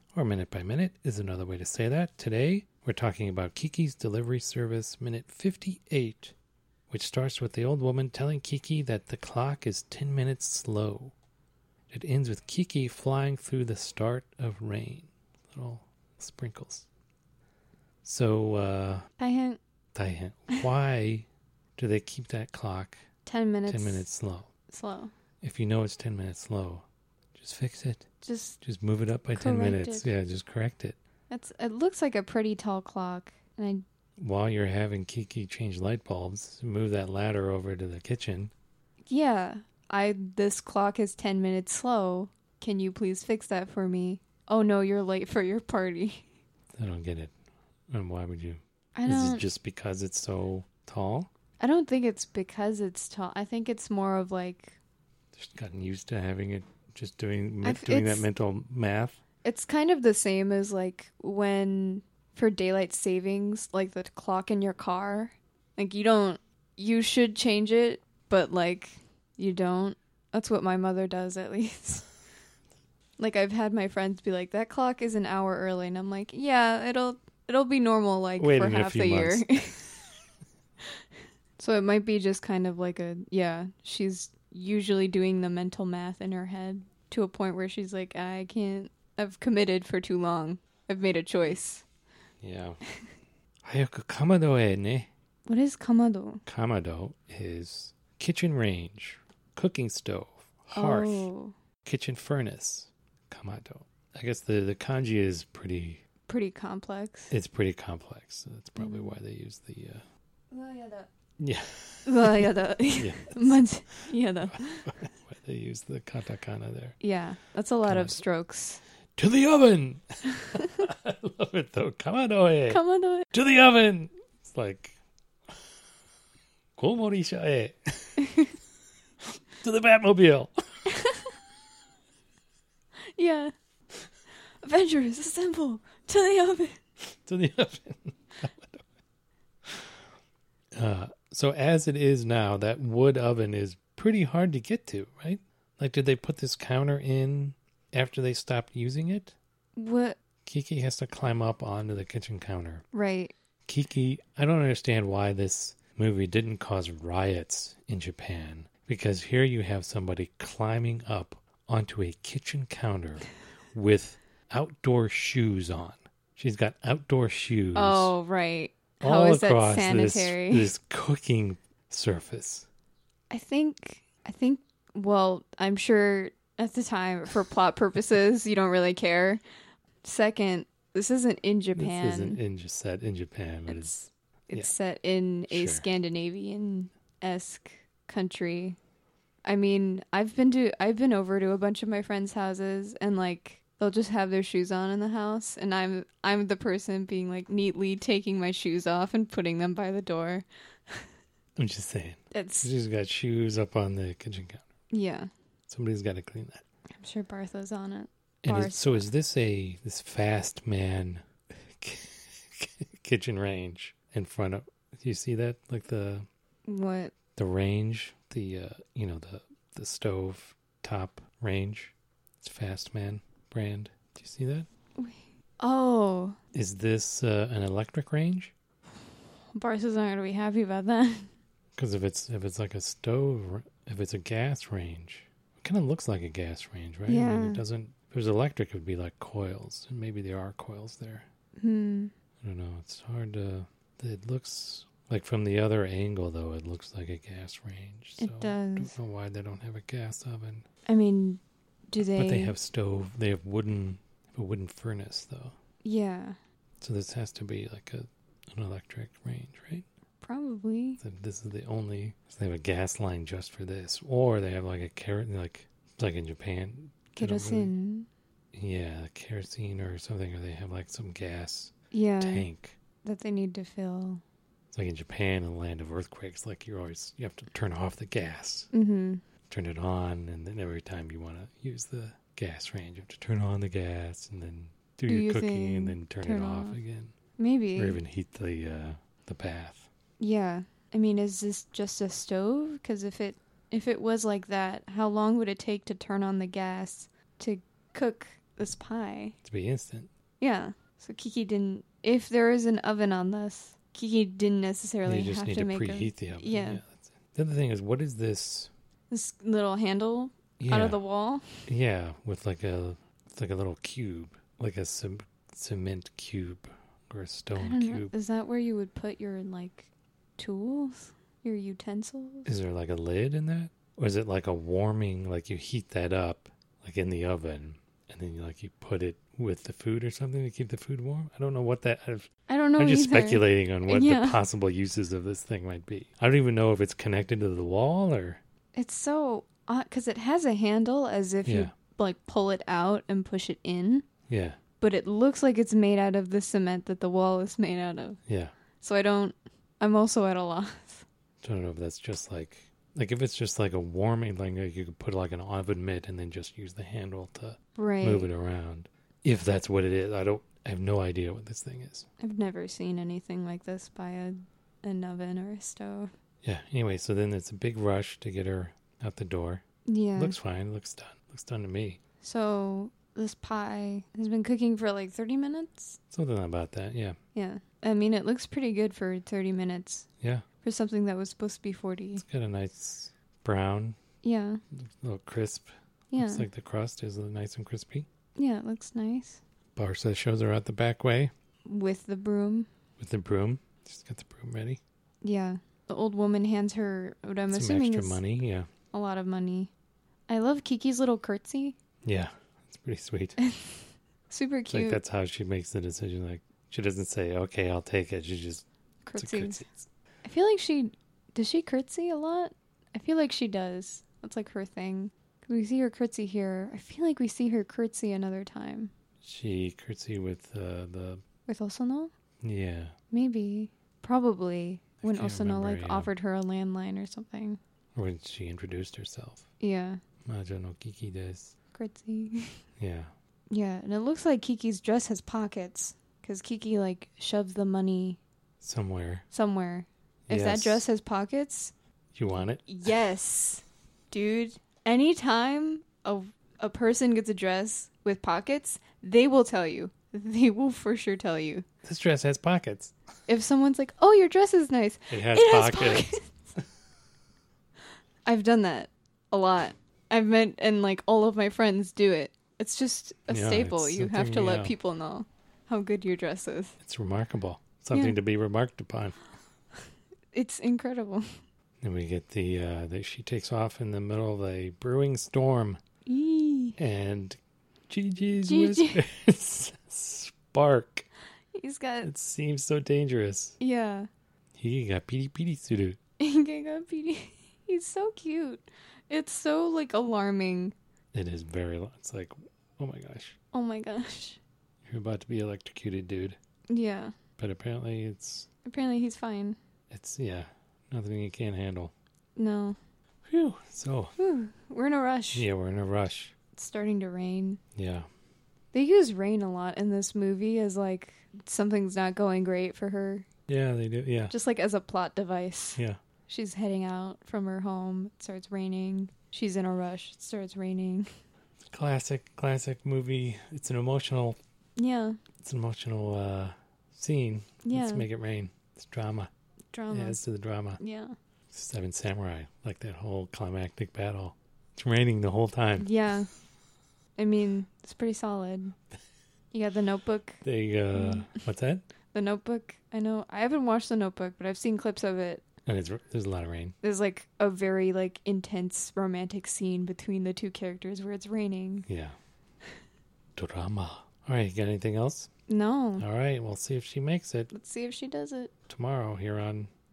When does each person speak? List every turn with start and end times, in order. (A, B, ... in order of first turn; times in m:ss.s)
0:00.1-0:06.3 A
0:06.9-0:11.1 A
0:11.9-0:16.9 A
0:18.0-0:19.1 A
0:19.2-0:19.6 B
0:19.9-0:23.0 A
0:23.2-0:24.0 B
0:23.7-0:24.5 A
0:24.7-0:25.1 B
0:25.4-0:28.0 A
0:28.2-0:28.6 B
0:28.6-0:31.0 A
0:29.3-0:30.1 B
0:31.3-0:33.8 B
0:34.2-0:38.5 A
0:39.1-0:46.2 B
0:46.8-0:47.3 A
0:47.9-0:51.3 A
0:49.0-0:49.4 B
0:51.6-0:54.8 B
0:55.3-0:59.2 A
0:57.6-0:58.2 B
0:59.4-1:12.0 B
1:13.2-1:19.8 B
1:18.4-1:19.5 A
1:21.6-1:31.8 B
1:32.4-1:32.8 A
1:33.6-1:35.1 A
1:35.4-1:36.4 B
1:36.4-1:41.3 A
1:40.7-1:41.6 B
1:41.8-1:46.0 A
1:46.3-1:47.3 B
1:47.3-1:50.0 A
1:48.8-1:49.2 B
1:50.5-1:51.1 B
1:51.4-1:54.1 A
1:52.0-1:54.9 B
1:54.7-1:57.0 A
1:57.0-1:58.8 B
1:57.8-1:58.2 A
1:59.2-2:02.8 A
2:02.7-2:03.3 B
2:03.3-2:05.0 A
2:06.8-2:08.5 A
2:09.6-2:10.5 A
2:10.9-2:11.2 B
2:13.1-2:13.5 B
2:14.6-2:16.8 B
2:17.1-2:18.8 A
2:20.8-2:29.4 A
2:29.8-2:30.2 B
2:30.4-2:32.8 A
2:32.9-2:33.3 B
2:33.7-2:48.1 A
2:47.7-2:50.7 B
2:49.0-2:52.7 A
2:53.3-2:59.4 B
3:00.0-3:02.4 B
3:01.7-3:04.0 A
3:03.7-3:08.8 B
3:05.5-3:05.8 A
3:09.4-3:21.1 B
3:21.6-3:24.6 A
3:22.3-3:22.7 B
3:24.9-3:25.3 B
3:25.7-3:26.6 A
3:27.0-3:29.1 B
3:28.4-3:36.2 A
3:36.6-3:37.1 B
3:37.3-3:44.7 A
3:45.0-3:46.4 B
3:46.5-3:48.5 A
3:49.5-3:51.3 B
3:51.8-4:01.2 A
3:57.1-3:57.6 B
4:01.6-4:02.1 B
4:02.4-4:10.6 A
4:08.2-4:08.9 B
4:10.9-4:12.6 B
4:12.2-4:15.6 A
4:15.8-4:16.4 B
4:16.8-4:19.8 A
4:20.2-4:21.0 B
4:21.0-4:27.7 A
4:27.2-4:28.1 B
4:28.5-4:32.8 A
4:31.9-4:32.5 B
4:33.0-4:34.2 B
4:34.7-4:38.7 A
4:38.7-4:39.2 B
4:39.5-4:47.1 A
4:45.1-4:46.8 B
4:47.4-4:48.0 B
4:47.8-4:49.9 A
4:50.2-4:59.3 B
4:59.4-5:00.1 A
5:00.4-5:06.8 B
5:05.0-5:08.7 A
5:09.1-5:11.7 B
5:10.6-5:11.0 A
5:11.7-5:18.1 A
5:17.6-5:22.6 B
5:22.4-5:38.4 A
5:32.5-5:34.4 B
5:38.7-5:44.0 B
5:41.4-5:41.7 A
5:44.3-5:44.6 A
5:44.8-5:48.2 B
5:48.3-5:48.5 A
5:48.8-5:51.0 B
5:51.4-6:02.1 A
5:57.8-5:58.3 B
6:02.2-6:06.1 B
6:06.4-6:09.6 A
6:09.8-6:10.4 B
6:10.2-6:12.0 A
6:12.2-6:16.0 B
6:16.1-6:17.2 A
6:17.3-6:20.1 B
6:20.2-6:20.4 A
6:20.6-6:22.2 B
6:22.1-6:24.0 A
6:24.2-6:24.6 B
6:24.7-6:28.1 A
6:26.1-6:26.5 B
6:28.4-6:29.4 B
6:29.8-6:31.3 A
6:31.6-6:32.7 B
6:33.0-6:34.8 A
6:35.2-6:38.2 B
6:37.5-6:38.7 A
6:38.9-6:39.7 B
6:40.3-6:41.8 B
6:42.0-6:43.4 A
6:43.4-6:45.0 B
6:44.7-6:48.6 A
6:49.0-6:49.7 B
6:49.2-6:49.8 A
6:50.2-6:58.9 B
6:59.2-7:01.2 A
7:01.5-7:02.1 B
7:02.4-7:03.0 A
7:03.1-7:07.6 B
7:05.0-7:06.1 A
7:07.9-7:09.4 A
7:09.6-7:10.0 B
7:10.2-7:11.5 A
7:11.7-7:12.6 B
7:12.8-7:13.1 A
7:13.5-7:18.2 B
7:18.6-7:19.2 A
7:19.3-7:21.7 B
7:20.3-7:20.9 A
7:22.1-7:22.8 A
7:22.7-7:31.6 B
7:31.8-7:32.9 A
7:33.3-7:36.3 B
7:35.1-7:36.1 A
7:38.2-7:46.7 B
7:43.3-7:44.7 A
7:46.8-7:49.2 A
7:50.3-7:51.4 B
7:51.8-7:55.8 A
7:56.0-7:56.8 B
7:56.8-8:01.0 A
7:58.5-7:59.0 B
8:01.5-8:02.1 B
8:02.0-8:03.6 A
8:03.6-8:04.1 B
8:04.6-8:06.0 A
8:06.2-8:10.7 B
8:11.1-8:13.4 A
8:13.5-8:14.4 B
8:14.8-8:16.4 A
8:16.7-8:17.1 B
8:17.4-8:18.5 A
8:18.6-8:19.6 B
8:19.9-8:21.9 A
8:22.4-8:22.8 B
8:23.3-8:24.1 A
8:24.2-8:25.4 B
8:25.3-8:26.3 A
8:26.5-8:27.6 B
8:27.8-8:28.1 A
8:28.7-8:33.3 B
8:33.5-8:34.3 A
8:34.3-8:41.1 B
8:41.7-8:44.4 A
8:44.8-8:45.2 B
8:45.4-8:49.3 A
8:47.6-8:48.1 B
8:49.7-8:50.2 B
8:49.9-8:50.8 A
8:50.8-8:51.1 B
8:51.5-8:55.9 A
8:55.8-8:56.3 B
8:57.2-8:58.7 B
8:59.5-9:00.4 B
9:00.4-9:01.8 A
9:00.9-9:01.4 B
9:02.1-9:05.4 B
9:05.6-9:06.8 A
9:06.8-9:11.9 B
9:11.9-9:12.1 A
9:13.4-9:15.3 A
9:15.5-9:16.0 B
9:16.0-9:17.5 A
9:17.5-9:18.5 B
9:18.7-9:19.7 A